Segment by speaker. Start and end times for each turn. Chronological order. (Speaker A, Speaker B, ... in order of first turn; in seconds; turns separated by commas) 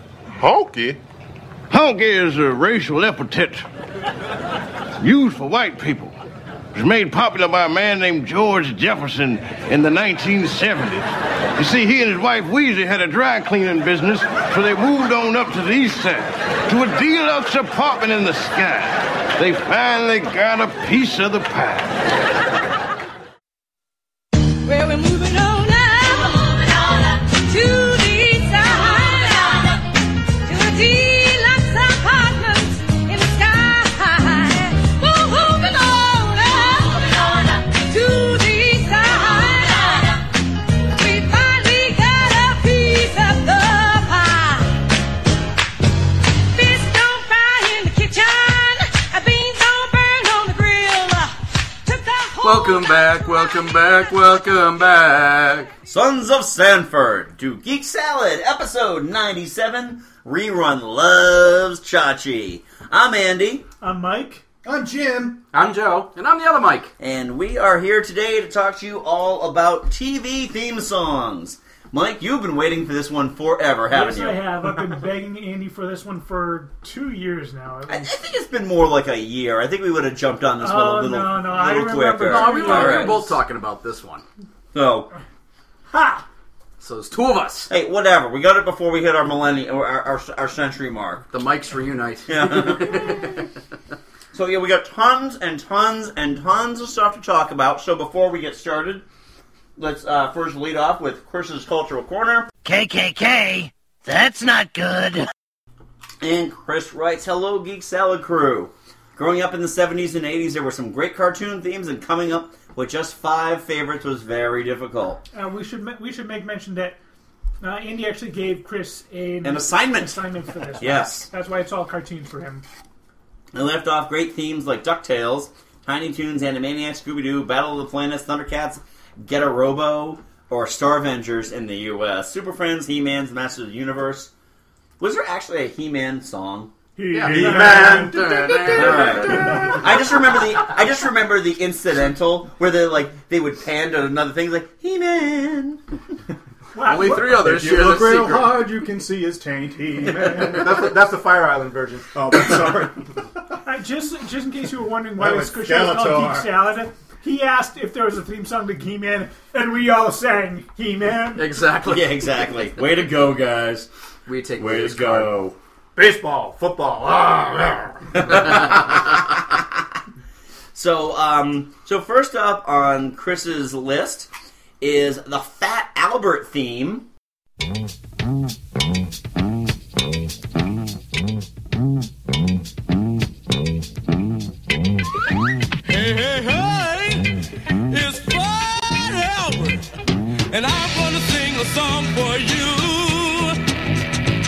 Speaker A: 0.4-1.0, Speaker A: 1.7-3.6, Speaker A: 5.0-6.1, Speaker A: 6.8-22.0, Speaker B: 24.6-29.9, Speaker B: 30.5-40.3, Speaker B: 40.9-44.8, Speaker B: 46.5-53.6, Speaker C: 52.4-55.7, Speaker D: 55.9-63.6, Speaker E: 63.8-64.4, Speaker F: 64.6-65.4, Speaker G: 65.5-66.1, Speaker C: 66.2-66.9, Speaker D: 67.0-74.4, Speaker E: 73.9-78.1, Speaker D: 77.9-83.3, Speaker E: 80.6-83.2, Speaker C: 82.2-84.2, Speaker D: 84.7-85.1, Speaker D: 85.9-86.2, Speaker C: 86.8-87.7, Speaker D: 87.7-91.2, Speaker C: 91.3-93.4, Speaker D: 92.3-93.2, Speaker D: 94.3-99.0, Speaker D: 99.8-105.2, Speaker D: 106.2-115.2, Speaker E: 115.3-117.0, Speaker E: 117.6-122.6, Speaker D: 119.4-120.3, Speaker D: 120.8-121.3, Speaker D: 123.5-134.3, Speaker D: 135.0-136.7, Speaker E: 137.0-138.6, Speaker C: 137.1-139.8, Speaker G: 137.3-138.2, Speaker D: 138.7-145.8, Speaker E: 146.8-147.3, Speaker C: 146.8-148.6, Speaker F: 146.9-150.9, Speaker G: 150.4-152.1, Speaker F: 152.1-153.1, Speaker E: 153.7-161.5, Speaker F: 155.2-156.6, Speaker C: 161.3-162.3, Speaker D: 161.9-163.9, Speaker C: 164.3-165.4, Speaker D: 164.6-165.6, Speaker G: 166.0-168.3, Speaker D: 168.2-169.0, Speaker D: 170.8-174.3, Speaker D: 174.8-177.1, Speaker H: 185.9-187.3, Speaker H: 187.9-189.8, Speaker H: 190.5-193.6